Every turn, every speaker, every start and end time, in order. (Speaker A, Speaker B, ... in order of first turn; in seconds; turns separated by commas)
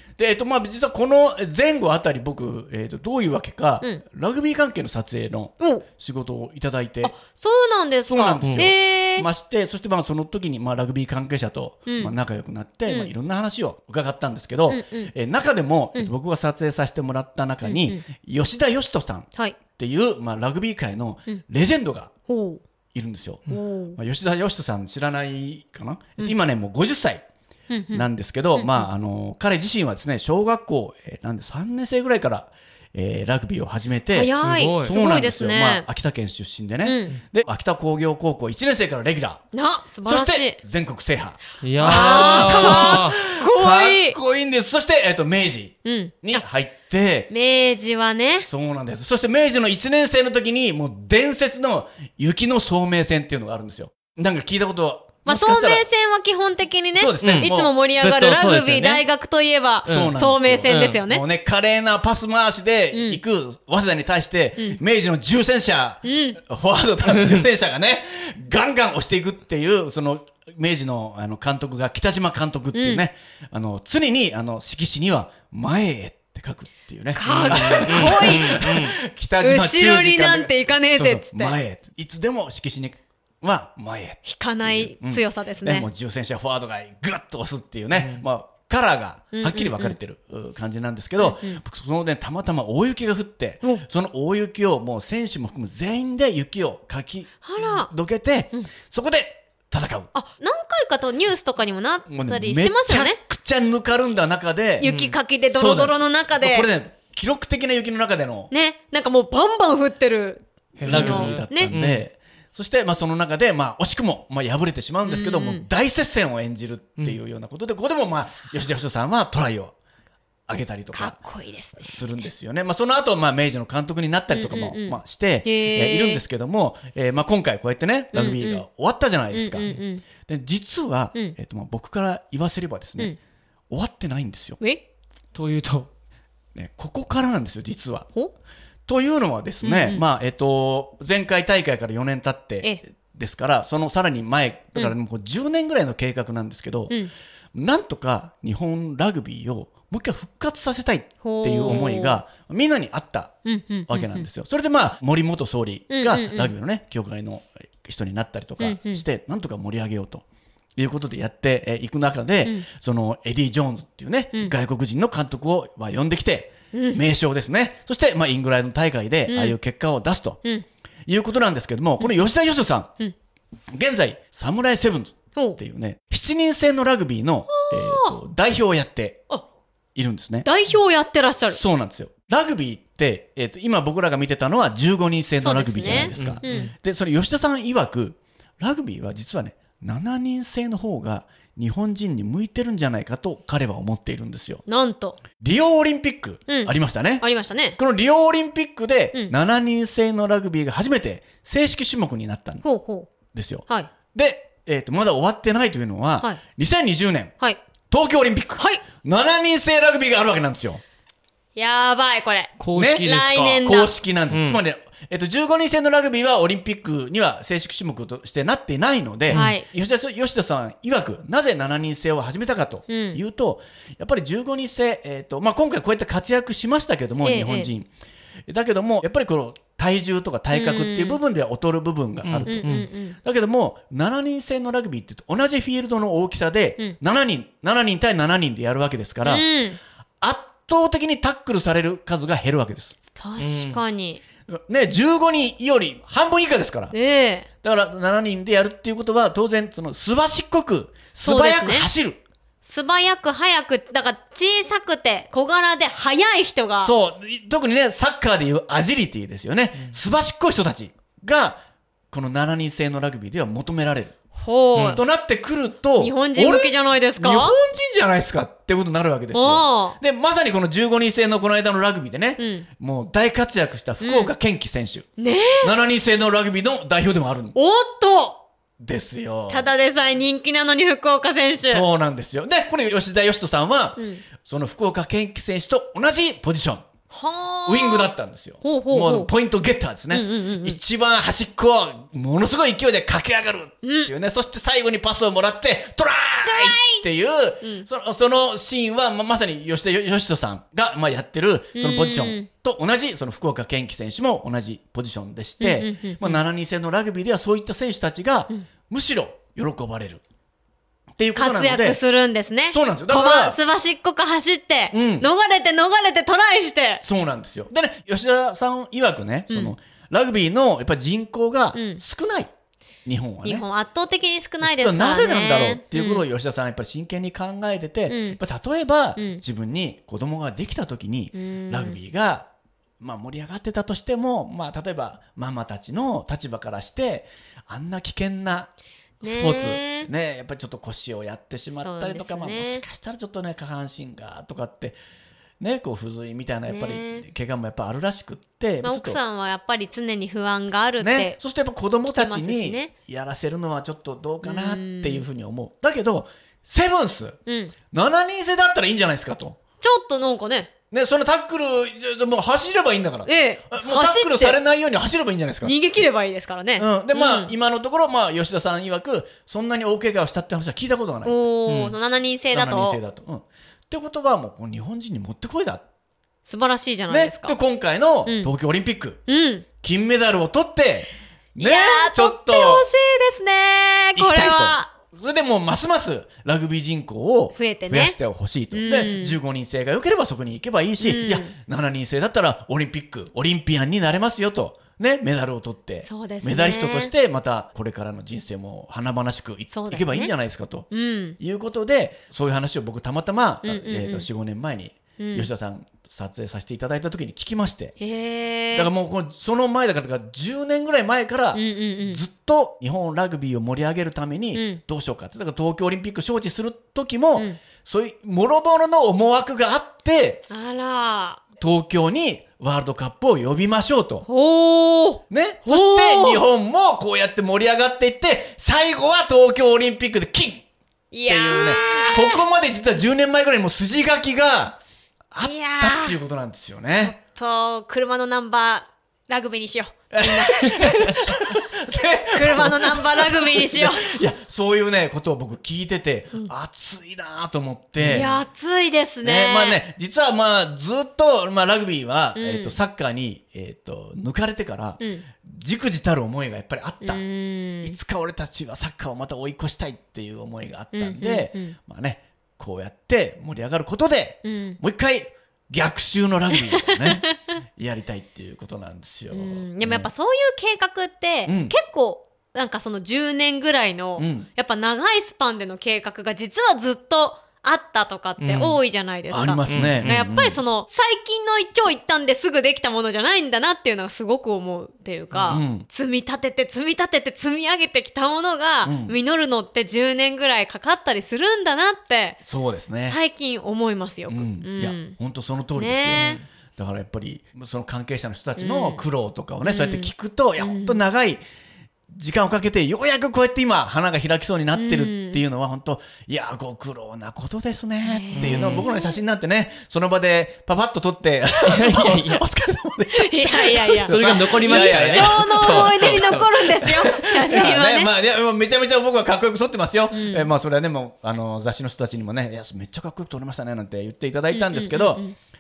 Speaker A: 0.2-7.1, Speaker B: 5.6-5.8, Speaker B: 7.0-9.3, Speaker A: 8.1-22.1, Speaker C: 8.4-8.7, Speaker B: 11.9-12.1, Speaker B: 14.7-15.1, Speaker B: 17.6-18.0, Speaker B: 22.3-22.6, Speaker A: 22.9-27.2, Speaker B: 23.5-24.0, Speaker B: 27.7-28.9, Speaker A: 27.9-39.4, Speaker B: 34.1-35.9, Speaker C: 34.4-34.9, Speaker B: 36.8-37.2, Speaker B: 39.5-40.6, Speaker A: 40.0-47.3, Speaker C: 41.6-43.2, Speaker B: 41.8-44.2, Speaker B: 45.9-46.5, Speaker B: 47.3-48.5, Speaker A: 48.4-55.9, Speaker B: 55.2-61.2, Speaker A: 57.0-57.7, Speaker C: 57.2-59.0, Speaker A: 59.9-100.1, Speaker C: 59.9-60.1, Speaker C: 60.7-61.0, Speaker B: 62.9-63.2, Speaker B: 66.0-66.4, Speaker C: 67.1-67.4, Speaker B: 72.7-73.0, Speaker B: 77.2-78.6, Speaker C: 77.2-79.0, Speaker B: 79.4-81.5, Speaker B: 84.2-85.9, Speaker C: 88.0-88.2, Speaker B: 89.3-90.0, Speaker B: 91.2-91.6, Speaker B: 97.4-97.9, Speaker B: 100.1-103.2, Speaker A: 102.1-104.9, Speaker B: 104.8-106.7, Speaker C: 104.8-105.2, Speaker A: 105.5-108.5, Speaker B: 108.5-111.7, Speaker C: 110.8-112.0, Speaker A: 110.8-119.7, Speaker B: 115.0-115.7, Speaker A: 120.5-121.2, Speaker B: 120.9-122.0, Speaker A: 121.8-133.2, Speaker B: 124.3-126.2, Speaker B: 128.1-128.6, Speaker B: 129.3-130.0, Speaker A: 133.7-134.6, Speaker C: 135.3-135.9, Speaker A: 136.5-138.1, Speaker A: 138.9-147.0, Speaker B: 139.6-140.0, Speaker A: 147.5-153.4, Speaker B: 151.2-152.2, Speaker B: 153.4-154.3, Speaker A: 153.9-160.2, Speaker B: 155.9-156.5, Speaker B: 158.6-159.0, Speaker A: 160.8-170.4, Speaker B: 166.7-167.0, Speaker B: 169.3-169.6, Speaker A: 171.1-172.9, Speaker A: 173.7-179.2, Speaker B: 177.5-178.2, Speaker A: 179.9-180.5, Speaker B: 180.4-181.6, Speaker A: 181.5-194.6, Speaker B: 185.4-186.7, Speaker C: 186.1-186.7, Speaker B: 194.7-195.2, Speaker A: 195.4-197.2, Speaker B: 196.5-197.8, Speaker A: 197.8-202.6, Speaker B: 202.6-203.1, Speaker A: 203.3-207.3, Speaker A: 207.9-210.8, Speaker B: 211.6-213.9, Speaker C: 212.6-213.6, Speaker A: 212.8-213.1, Speaker A: 213.6-227.9, Speaker C: 214.3-214.6, Speaker C: 219.3-219.6, Speaker B: 219.3-219.7, Speaker B: 222.9-223.2, Speaker B: 227.2-227.7, Speaker A: 228.5-239.4, Speaker B: 230.5-231.2, Speaker C: 232.2-232.9, Speaker B: 232.5-233.2, Speaker B: 239.2-239.8, Speaker A: 240.2-242.9, Speaker B: 243.2-244.2, Speaker C: 243.4-243.8, Speaker A: 244.5-246.9, Speaker B: 246.9-247.5, Speaker A: 247.6-252.2, Speaker B: 251.2-251.9, Speaker B: 252.7-256.9, Speaker A: 256.8-264.2, Speaker B: 264.4-265.0, Speaker C: 264.8-265.0, Speaker A: 264.9-275.1, Speaker B: 266.0-267.5, Speaker B: 269.3-270.0, Speaker B: 272.4-272.7, Speaker B: 274.0-274.3, Speaker B: 275.2-275.7, Speaker A: 275.6-277.6, Speaker B: 277.5-278.4, Speaker A: 278.8-279.7, Speaker B: 279.5-281.9, Speaker A: 281.7-286.9, Speaker B: 284.0-284.2, Speaker B: 287.1-288.1, Speaker A: 287.7-310.2, Speaker B: 288.6-289.3, Speaker B: 290.1-290.8, Speaker B: 293.8-294.1, Speaker B: 296.4-297.0, Speaker B: 297.6-297.9, Speaker B: 301.8-302.5, Speaker B: 305.6-306.4, Speaker A: 311.2-312.0, Speaker B: 311.4-317.0, Speaker A: 312.7-313.6, Speaker A: 314.9-315.3, Speaker A: 317.0-322.5, Speaker B: 319.5-319.7, Speaker B: 321.8-322.0, Speaker A: 323.0-323.6, Speaker B: 323.4-326.2, Speaker A: 324.6-332.5, Speaker B: 328.1-328.4, Speaker B: 329.2-329.4, Speaker B: 331.4-332.0, Speaker A: 333.0-345.0, Speaker B: 339.2-340.1, Speaker B: 341.8-342.8, Speaker A: 345.6-349.2, Speaker B: 346.7-347.2, Speaker B: 348.8-351.4, Speaker A: 351.0-357.4, Speaker B: 352.1-352.9, Speaker B: 354.4-355.2, Speaker B: 357.5-357.7, Speaker A: 357.9-359.6, Speaker B: 359.8-360.7, Speaker A: 360.9-365.7, Speaker B: 363.2-364.6, Speaker B: 365.6-367.5, Speaker A: 366.8-371.4, Speaker B: 371.2-373.0, Speaker C: 371.7-371.9, Speaker A: 372.5-375.8, Speaker B: 376.4-377.6, Speaker A: 377.1-379.2, Speaker B: 378.2-378.5, Speaker B: 379.3-379.7, Speaker A: 379.8-382.9, Speaker B: 381.6-384.9, Speaker A: 384.2-408.0, Speaker B: 387.5-388.2, Speaker B: 388.7-389.4, Speaker B: 391.0-391.5, Speaker B: 396.0-397.1, Speaker B: 399.7-400.3, Speaker B: 400.9-401.4, Speaker B: 403.6-404.3, Speaker B: 405.2-405.5, Speaker B: 408.0-408.9, Speaker A: 408.7-420.4, Speaker B: 411.5-412.2, Speaker B: 414.5-414.8, Speaker B: 420.5-421.4, Speaker A: 421.6-424.3, Speaker B: 424.3-426.4, Speaker A: 425.3-430.6, Speaker B: 431.1-432.4, Speaker A: 431.3-434.8, Speaker A: 435.3-437.1, Speaker B: 435.4-436.2, Speaker B: 436.9-441.4, Speaker A: 440.1-448.3, Speaker B: 442.3-444.2, Speaker C: 448.0-448.4, Speaker B: 448.1-449.8, Speaker A: 449.2-457.2, Speaker B: 452.4-452.8, Speaker B: 455.0-455.2, Speaker B: 457.0-458.0, Speaker A: 457.8-470.1, Speaker B: 460.9-461.8, Speaker B: 464.4-464.8, Speaker B: 466.9-467.3, Speaker B: 469.3-492.4, Speaker A: 471.5-471.8, Speaker A: 474.2-474.5, Speaker C: 478.4-478.8, Speaker A: 479.3-480.6, Speaker C: 479.7-480.2, Speaker C: 485.3-485.6, Speaker A: 485.5-485.9, Speaker A: 488.8-489.1, Speaker A: 492.4-493.2, Speaker B: 493.1-495.2, Speaker A: 494.3-501.4, Speaker B: 495.8-496.4, Speaker B: 498.6-499.0, Speaker B: 499.6-501.0, Speaker A: 502.1-525.2, Speaker B: 504.8-505.4, Speaker B: 508.0-509.1, Speaker C: 508.4-508.9, Speaker C: 511.7-512.4, Speaker B: 513.1-518.1, Speaker C: 514.0-516.5, Speaker B: 520.1-520.5, Speaker B: 524.5-525.4